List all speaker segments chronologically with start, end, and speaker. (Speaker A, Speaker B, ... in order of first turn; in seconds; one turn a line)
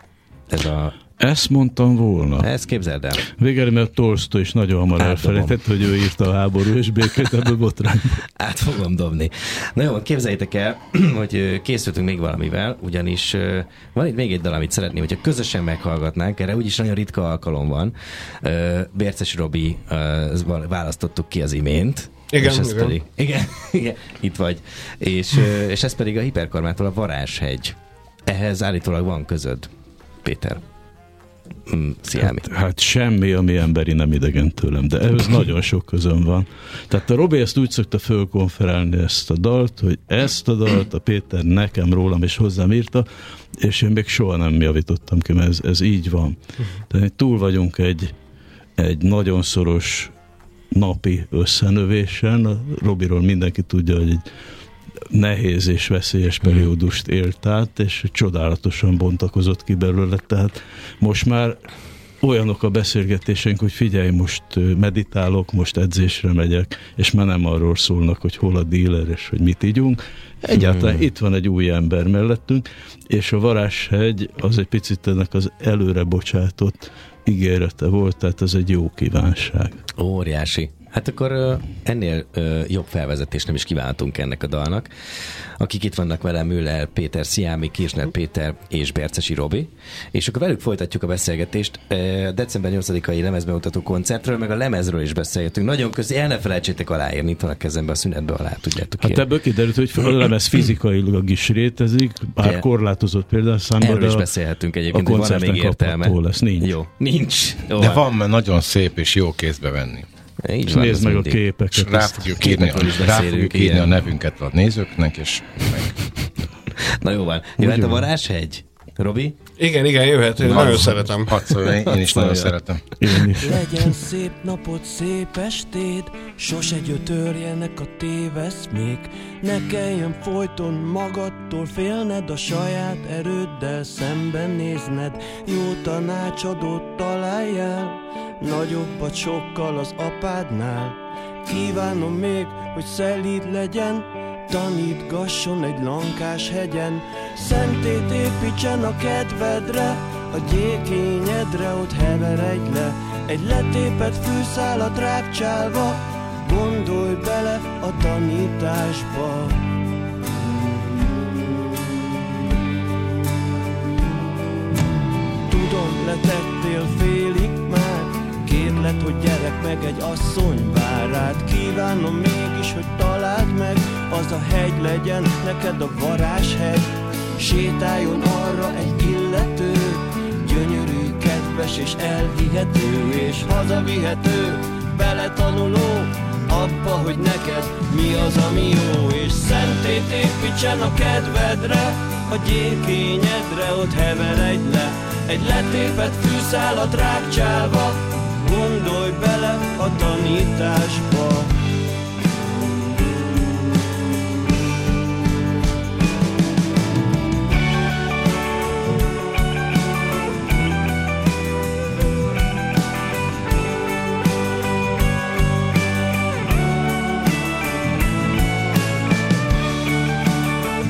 Speaker A: 0.5-1.0
Speaker B: 1.2-2.5
Speaker A: 2.4-3.3
Speaker B: 3.2-8.2
Speaker A: 5.0-5.6
Speaker A: 8.4-27.8
Speaker C: 22.3-23.0
Speaker A: 28.3-29.7
Speaker A: 30.2-30.6
Speaker A: 31.7-32.5
Speaker B: 32.2-43.1
Speaker B: 43.6-46.4
Speaker B: 46.9-48.1
Speaker B: 48.8-50.1
Speaker B: 50.7-54.2
Speaker B: 55.1-61.6
Speaker A: 56.4-56.7
Speaker B: 62.2-79.8
Speaker A: 70.5-71.1
Speaker A: 80.0-84.9
Speaker A: 85.6-99.2
Speaker B: 99.0-104.3
Speaker A: 102.4-102.7
Speaker A: 103.8-108.0
Speaker B: 104.9-106.7
Speaker D: 107.8-110.1
Speaker A: 110.4-111.4
Speaker B: 110.7-112.7
Speaker D: 111.7-116.0
Speaker A: 112.4-114.0
Speaker A: 116.7-119.4
Speaker B: 117.6-118.1
Speaker C: 119.6-121.4
Speaker A: 120.4-122.6
Speaker D: 121.3-122.8
Speaker B: 123.0-124.0
Speaker E: 123.4-159.6
Speaker E: 160.5-161.4
Speaker E: 165.5-201.5